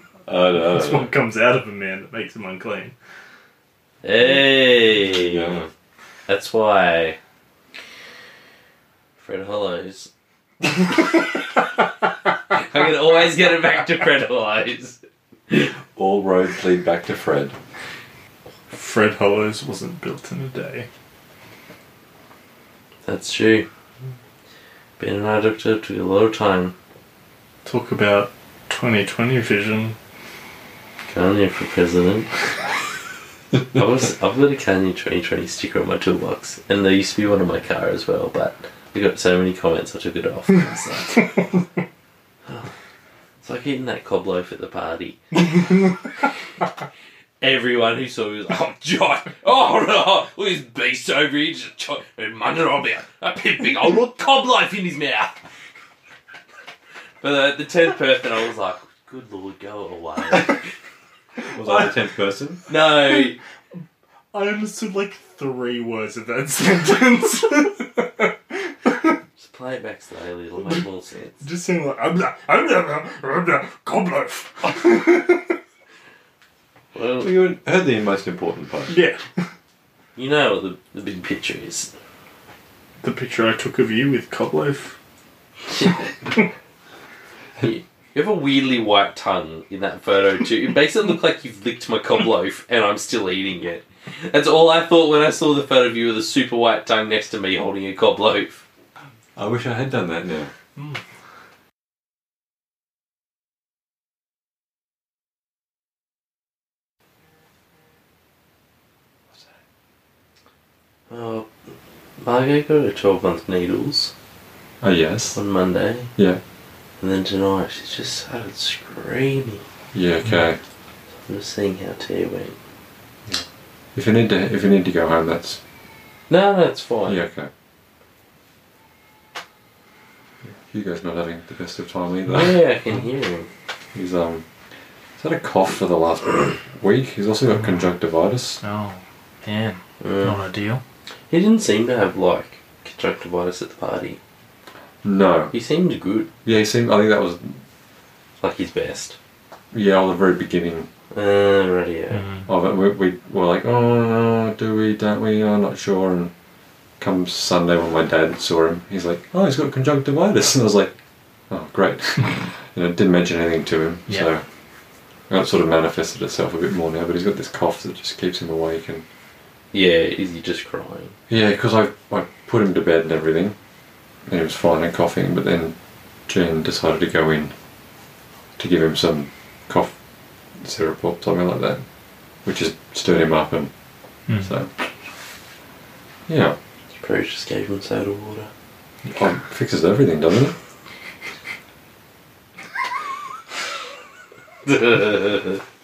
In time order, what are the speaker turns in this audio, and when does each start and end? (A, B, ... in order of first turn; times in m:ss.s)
0:00.2-0:01.1 A
0:00.6-0:03.0 B
0:04.0-0:05.7 C
0:05.1-0:05.7 A
0:06.3-0:07.2 C
0:09.2-0:10.1 C
0:12.5-0:15.7 C
0:16.0-0:17.6 A
0:18.7-0:20.9 B
0:23.0-0:23.7 C
0:25.0-0:26.7 C
0:27.6-0:30.0 B
0:31.1-0:32.3 C
0:33.7-0:41.3 C
0:43.4-0:45.6 C
0:47.4-0:55.4 C
0:57.2-1:00.6 C
1:01.4-1:02.6 A
1:02.7-1:03.4 C
1:04.3-1:09.1 B
1:09.4-1:11.4 C
1:11.4-1:15.6 B
1:16.9-1:17.4 C
1:17.2-1:19.0 A
1:18.9-1:19.2 B
1:20.2-1:21.9 C
1:23.0-1:25.0 B
1:25.7-1:26.4 C
1:27.6-1:38.6 C
1:39.4-1:40.5 A
1:40.8-1:41.0 B
1:51.1-1:51.5 C
1:52.2-1:54.1 C
1:54.8-1:55.4 A
1:55.4-1:56.1 C
1:56.2-1:56.4 A
1:57.0-1:59.6 C
1:59.9-2:00.6 A
2:01.2-2:02.6 C
2:03.3-2:05.6 A
2:06.3-2:07.2 C
2:07.1-2:07.5 A
2:10.6-2:12.6 A
2:12.3-2:13.5 C
2:14.0-2:14.4 A
2:15.2-2:18.6 A
2:18.6-2:20.8 B
2:20.0-2:20.4 C
2:21.3-2:24.2 C
2:25.0-2:25.5 A
2:25.5-2:26.3 C
2:26.4-2:27.6 A
2:28.4-2:29.2 C
2:29.7-2:30.9 A
2:31.1-2:32.3 C
2:32.5-2:36.3 A
2:37.0-2:41.0 A
2:41.5-2:44.4 A
2:45.3-2:49.0 A
2:49.7-2:51.2 C
2:51.3-2:53.6 A
2:54.3-2:55.8 A
2:56.3-2:57.5 A
2:58.6-2:59.9 A
3:00.6-3:01.8 A
3:02.4-3:03.7 A
3:04.4-3:04.7 A
3:06.3-3:06.6 A
3:06.9-3:08.5 C
3:09.0-3:10.6 A
3:14.7-3:15.5 C